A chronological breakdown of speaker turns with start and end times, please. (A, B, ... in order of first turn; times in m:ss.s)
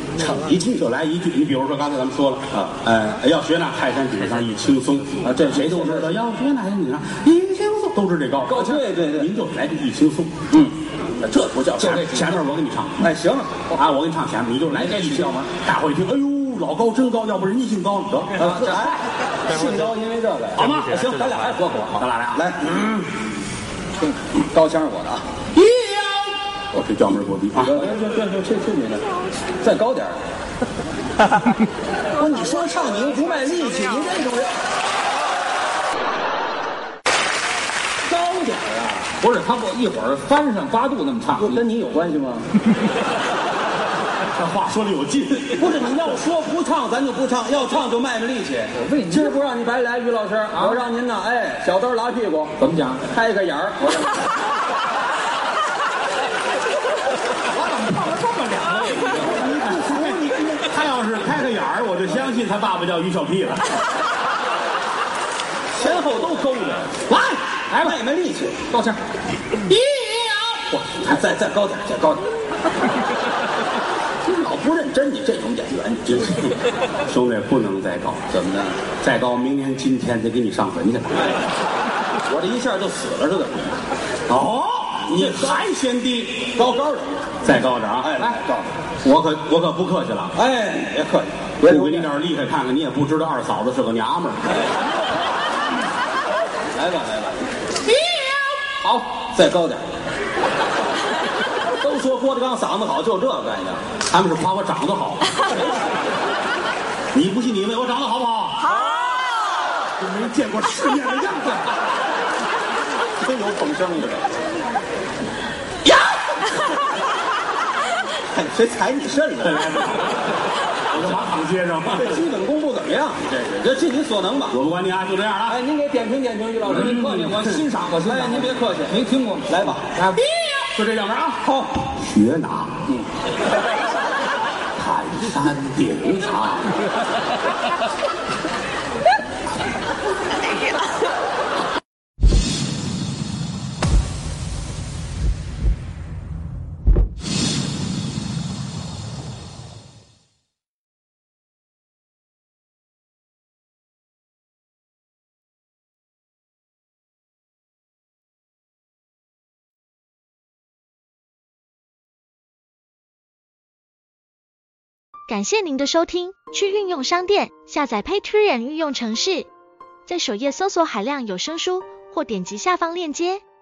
0:00.2-0:00.8 A
0:00.6-0:10.4 B
0:05.2-0:06.2 A
0:08.5-0:09.3 A
0:10.5-0:12.1 A
0:11.8-0:12.5 C
0:11.8-0:13.1 B
0:13.0-0:13.8 A
0:13.7-0:18.4 B
0:14.7-0:15.5 C
0:18.4-0:22.9 A
0:18.4-0:19.0 C
0:20.6-0:21.0 B
0:22.0-0:23.0 B
0:24.0-0:25.3 A
0:25.6-0:27.9 B
0:27.6-0:29.0 A
0:29.6-0:30.2 A
0:32.1-0:34.5 A
0:38.0-0:39.1 A
0:39.2-0:41.6 C
0:41.4-0:42.5 A
0:44.4-0:45.8 B
0:45.5-0:52.6 A
0:48.7-0:49.4 C
0:50.5-0:50.8 C
0:52.6-0:53.0 C
0:53.1-0:54.3 A
0:57.5-0:59.5 C
0:59.2-1:00.7 A
0:59.5-1:03.8 B
1:05.7-1:07.0 A
1:07.1-1:08.0 C
1:07.8-1:08.6 A
1:08.7-1:09.0 C
1:09.7-1:11.2 B
1:11.0-1:12.3 A
1:14.2-1:16.4 A
1:16.1-1:18.2 B
1:18.3-1:18.8 A
1:19.0-1:21.4 B
1:22.3-1:23.8 A
1:24.3-1:26.6 B
1:25.0-1:25.6 A
1:26.5-1:27.4 A
1:27.4-1:28.3 B
1:28.0-1:28.7 A
1:29.0-1:30.4 B
1:30.3-1:32.1 A
1:31.6-1:34.5 B
1:34.5-1:34.8 A
1:36.7-1:37.5 A
1:38.1-1:39.1 C
1:39.3-1:39.8 A
1:41.7-1:43.8 A
1:44.1-1:45.3 B
1:45.5-1:45.8 A
1:47.1-1:48.7 B
1:50.0-1:51.6 B
1:53.2-1:54.3 A
1:58.3-1:59.8 A
1:59.4-2:00.2 B
2:00.9-2:02.3 B
2:01.9-2:04.6 A
2:04.5-2:05.6 B
2:05.5-2:07.3 A
2:06.7-2:10.2 C
2:06.7-2:07.6 B
2:08.0-2:09.9 A
2:10.3-2:11.4 B
2:11.4-2:11.8 A
2:12.0-2:12.8 B
2:14.8-2:16.8 B
2:45.3-2:49.5 D
2:50.1-2:53.4 D